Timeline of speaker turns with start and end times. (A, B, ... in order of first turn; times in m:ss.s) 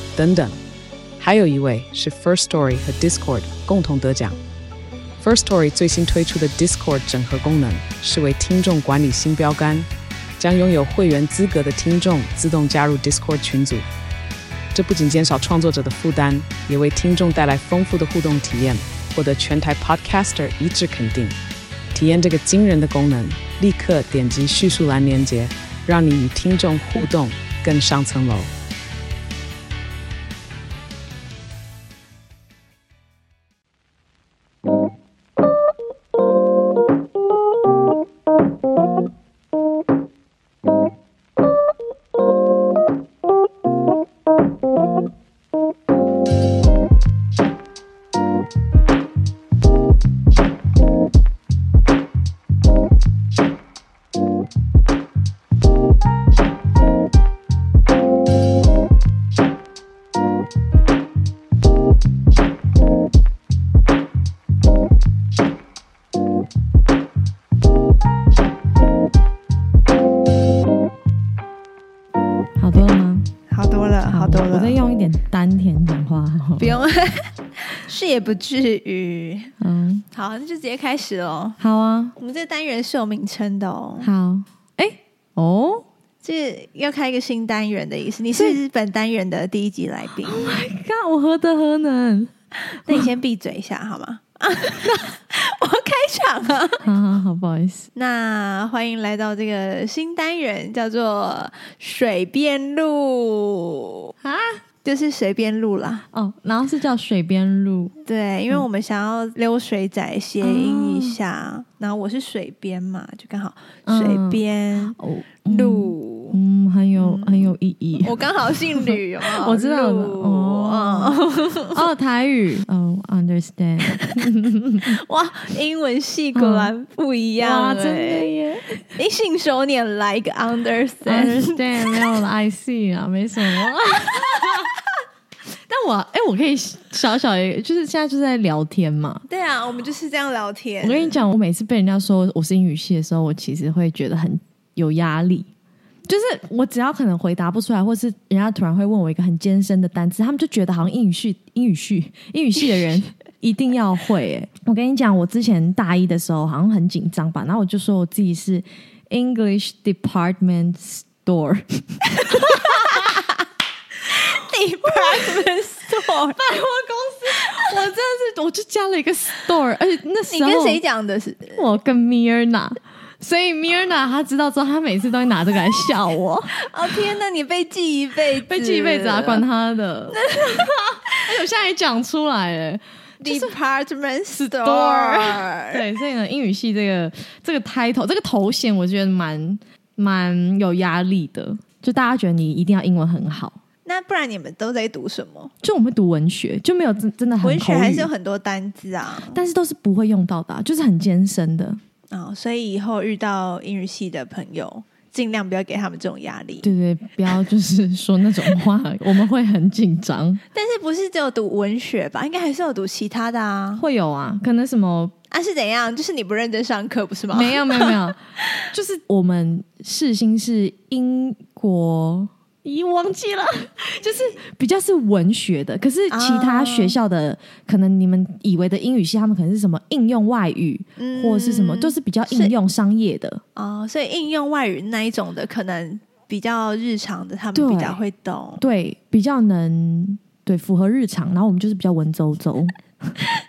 0:00.2-0:00.6 A
0:01.2-0:04.4 A
0:05.2-0:09.9 A
0:10.4-0:13.8 A
0:14.7-0:21.4 A
0:21.9-0:28.5 A
1:12.6-1:13.3 B
1:13.5-1:14.8 C
1:14.1-1:16.8 B
1:16.6-1:19.6 C
1:19.6-1:20.0 B
1:20.1-1:21.6 C
1:21.6-1:22.1 B
1:22.2-1:24.1 C
1:24.0-1:25.9 B
1:26.2-1:30.6 C
1:30.2-1:32.3 B
1:32.7-1:36.8 C
1:36.8-1:37.9 B
1:38.0-1:44.1 C
1:44.2-1:44.6 B
1:44.8-1:46.0 C
1:46.1-1:47.9 B
1:48.1-1:56.4 C
1:50.4-1:51.2 B
1:53.9-1:58.2 B
1:57.0-2:01.8 C
1:58.8-2:04.9 B
2:03.9-2:04.2 C
2:04.8-2:08.3 C
2:06.4-2:06.7 B
2:07.4-2:08.8 B
2:08.9-2:12.1 C
2:11.0-2:14.8 B
2:15.7-2:19.2 B
2:19.3-2:21.2 C
2:20.8-2:25.5 B
2:26.1-2:43.2 B
2:42.1-2:43.4 C
2:44.1-2:46.4 C
2:44.9-2:45.4 B
2:46.4-2:50.8 B
2:47.4-2:47.6 C
2:50.3-2:51.6 C
2:51.6-2:56.6 B
2:56.6-2:59.4 C
2:58.4-3:03.5 B
3:00.1-3:01.2 C
3:03.2-3:05.8 C
3:04.3-3:13.6 B
3:13.8-3:15.5 C
3:15.6-3:18.1 B
3:17.4-3:19.4 C
3:19.3-3:21.8 B
3:22.1-3:26.7 C
3:26.6-3:30.4 B
3:30.5-3:33.8 C
3:33.8-3:35.1 B
3:35.3-3:38.6 C
3:37.3-3:53.4 B
3:46.1-3:47.0 C
3:51.0-3:52.6 C
3:53.6-3:58.6 C
3:57.5-3:58.0 B
3:58.6-4:03.1 B